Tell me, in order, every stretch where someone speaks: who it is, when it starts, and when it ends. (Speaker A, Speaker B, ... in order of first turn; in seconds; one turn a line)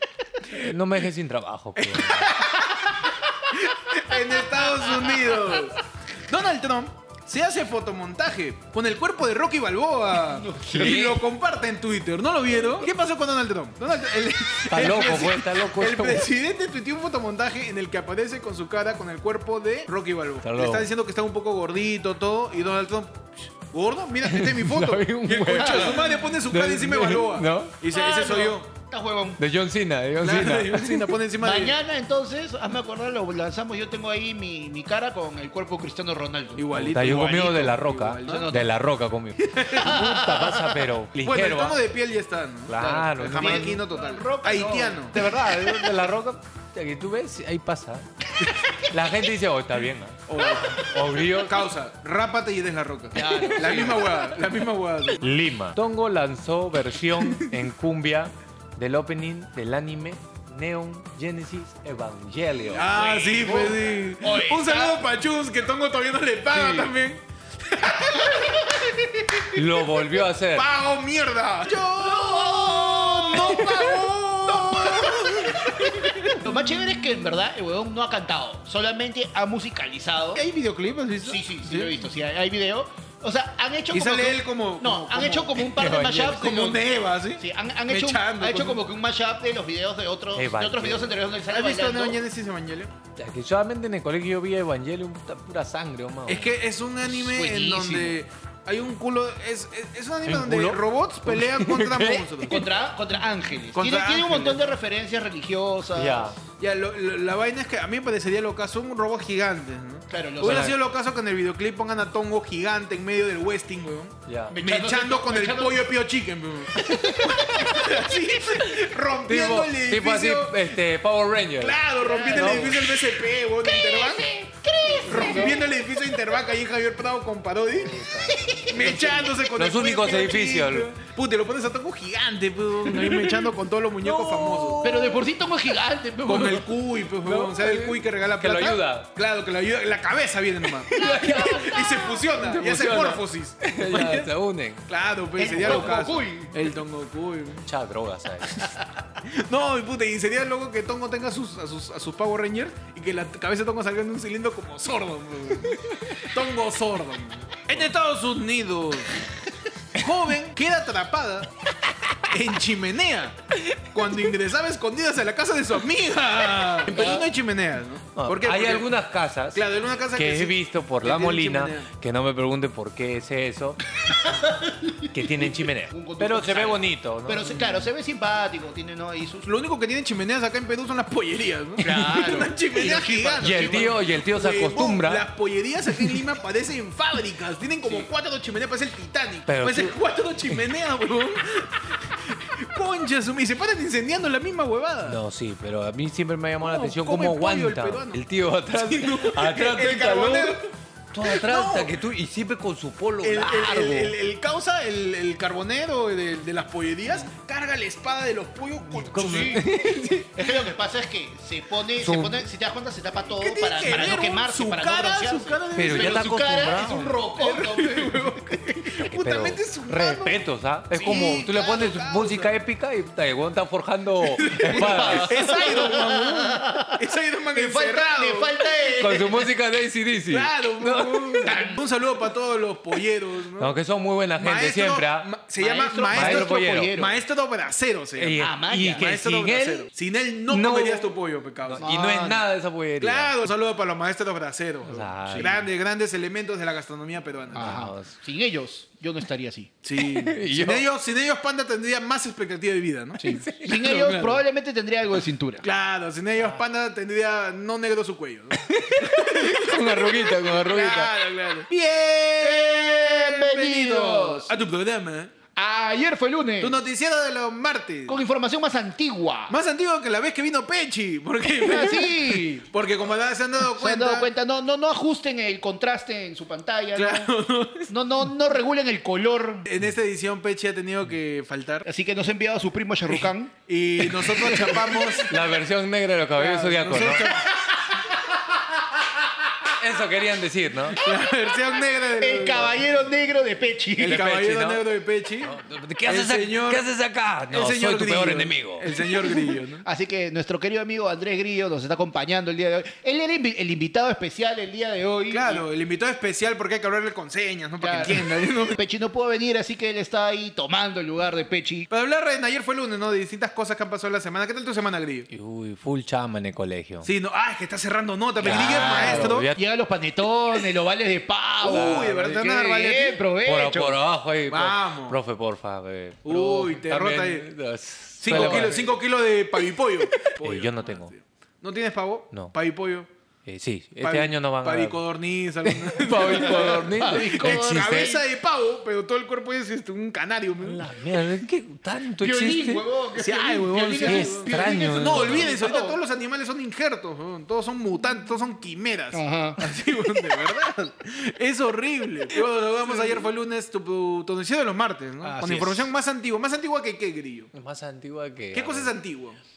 Speaker A: 0.5-2.4
Speaker B: 1.8-2.9
Speaker C: 2.3-3.5
Speaker B: 3.5-28.7
Speaker C: 4.1-5.7
Speaker C: 10.3-11.0
Speaker A: 10.6-11.2
Speaker A: 14.7-16.3
Speaker A: 20.4-20.9
Speaker A: 24.2-27.7
Speaker C: 25.5-26.1
Speaker C: 27.9-29.4
Speaker A: 29.4-31.0
Speaker B: 30.2-31.8
Speaker C: 31.4-36.7
Speaker B: 36.6-38.5
Speaker A: 36.7-41.8
Speaker C: 38.2-38.7
Speaker B: 39.4-40.1
Speaker C: 39.8-40.8
Speaker B: 41.2-45.2
Speaker A: 42.7-43.9
Speaker C: 42.8-45.2
Speaker A: 45.1-48.1
Speaker A: 48.8-51.6
Speaker B: 50.3-55.2
Speaker C: 53.1-54.3
Speaker A: 53.3-54.0
Speaker A: 55.2-62.9
Speaker B: 62.7-68.7
Speaker C: 62.9-65.0
Speaker A: 66.5-66.9
Speaker C: 68.3-68.9
Speaker A: 69.5-70.7
Speaker B: 70.5-76.5
Speaker C: 72.0-80.4
Speaker B: 80.3-82.0
Speaker C: 81.2-86.9
Speaker B: 83.9-85.6
Speaker A: 85.6-86.5
Speaker B: 86.2-88.8
Speaker C: 87.4-92.2
Speaker A: 90.3-91.2
Speaker B: 91.5-92.9
Speaker A: 93.2-96.5
Speaker B: 96.3-102.6
Speaker C: 97.0-98.2
Speaker A: 100.2-102.6
Speaker C: 102.5-106.3
Speaker B: 103.7-104.7
Speaker A: 106.0-106.4
Speaker B: 106.6-120.7
Speaker C: 110.1-110.8
Speaker A: 110.4-110.8
Speaker A: 114.3-114.6
Speaker C: 114.5-115.9
Speaker C: 116.8-118.0
Speaker A: 119.3-122.8
Speaker B: 121.6-124.3
Speaker C: 122.0-123.1
Speaker C: 123.6-125.7
Speaker A: 125.0-125.6
Speaker B: 125.0-134.8
Speaker A: 127.8-128.7
Speaker C: 128.3-129.4
Speaker A: 129.6-130.9
Speaker A: 132.8-133.5
Speaker A: 134.0-135.2
Speaker C: 134.8-136.7
Speaker B: 136.3-144.3
Speaker A: 137.2-139.1
Speaker A: 140.9-144.8
Speaker C: 141.0-142.2
Speaker B: 144.9-147.7
Speaker C: 145.4-146.6
Speaker A: 145.6-145.9
Speaker A: 147.7-148.7
Speaker B: 149.2-159.1
Speaker B: 159.9-161.5
Speaker B: 162.2-168.9
Speaker C: 166.9-167.3
Speaker A: 168.2-173.8
Speaker B: 169.6-171.9
Speaker C: 174.1-179.5
Speaker A: 175.1-177.7
Speaker B: 179.4-195.2
Speaker C: 181.8-184.0
Speaker A: 183.4-185.3
Speaker A: 189.5-189.9
Speaker A: 195.0-200.6
Speaker B: 196.6-200.7
Speaker A: 201.1-204.2
Speaker B: 201.2-202.0
Speaker B: 203.2-209.6
Speaker A: 208.9-210.3
Speaker C: 209.2-209.6
Speaker C: 210.3-218.8
Speaker A: 212.0-212.4
Speaker B: 213.4-216.3
Speaker A: 215.8-217.2
Speaker B: 217.3-220.5
Speaker A: 219.0-225.4
Speaker C: 221.0-221.5
Speaker B: 221.0-222.5
Speaker B: 224.3-228.6
Speaker C: 224.6-229.5
Speaker A: 229.0-231.6
Speaker B: 230.3-233.7
Speaker C: 231.4-231.8
Speaker A: 233.6-235.3
Speaker B: 234.4-241.9
Speaker C: 235.6-237.2
Speaker A: 236.1-236.9
Speaker A: 238.2-239.9
Speaker C: 238.4-239.0
Speaker A: 240.5-241.1
Speaker A: 241.7-243.3
Speaker C: 241.8-242.4
Speaker B: 243.0-247.9
Speaker A: 244.9-245.6
Speaker C: 245.3-245.6
Speaker A: 247.5-248.1
Speaker C: 247.5-249.7
Speaker B: 249.8-254.4
Speaker A: 250.0-250.9
Speaker C: 253.2-255.7
Speaker A: 253.2-254.0
Speaker B: 255.6-265.3
Speaker A: 258.6-261.1
Speaker C: 262.4-264.6
Speaker C: 265.6-266.8
Speaker B: 266.6-268.2
Speaker C: 268.1-269.6
Speaker B: 269.5-274.3
Speaker C: 271.6-272.7
Speaker C: 273.6-277.3
Speaker B: 276.9-277.9
Speaker C: 277.9-279.7
Speaker B: 279.7-281.8
Speaker C: 281.9-283.5
Speaker B: 283.7-285.3
Speaker C: 284.1-285.2
Speaker A: 284.2-287.3
Speaker B: 286.4-287.6
Speaker C: 287.3-288.6
Speaker A: 289.7-291.0
Speaker B: 290.9-292.8
Speaker C: 292.1-294.3
Speaker B: 294.0-295.6
Speaker A: 294.0-294.9
Speaker A: 295.4-299.0
Speaker B: 296.1-296.9
Speaker B: 297.5-299.8
Speaker C: 299.8-305.7
Speaker B: 305.3-308.8
Speaker C: 307.8-311.9
Speaker B: 311.9-315.3
Speaker A: 315.3-317.1
Speaker B: 317.0-319.5
Speaker C: 318.4-324.0
Speaker A: 318.4-319.6
Speaker B: 321.6-323.2
Speaker A: 321.6-322.5
Speaker A: 323.4-328.9
Speaker B: 324.5-325.2
Speaker B: 326.2-327.5
Speaker B: 328.2-333.1
Speaker C: 328.3-328.9
Speaker A: 330.4-331.1
Speaker A: 333.5-335.0
Speaker B: 334.0-340.9
Speaker A: 335.6-338.2
Speaker C: 336.2-338.1
Speaker A: 340.6-342.9
Speaker C: 342.2-346.0
Speaker B: 343.2-357.5
Speaker A: 344.0-345.5
Speaker C: 349.1-349.6
Speaker C: 352.8-353.2
Speaker C: 355.2-355.9
Speaker A: 357.5-358.9
Speaker B: 358.5-359.4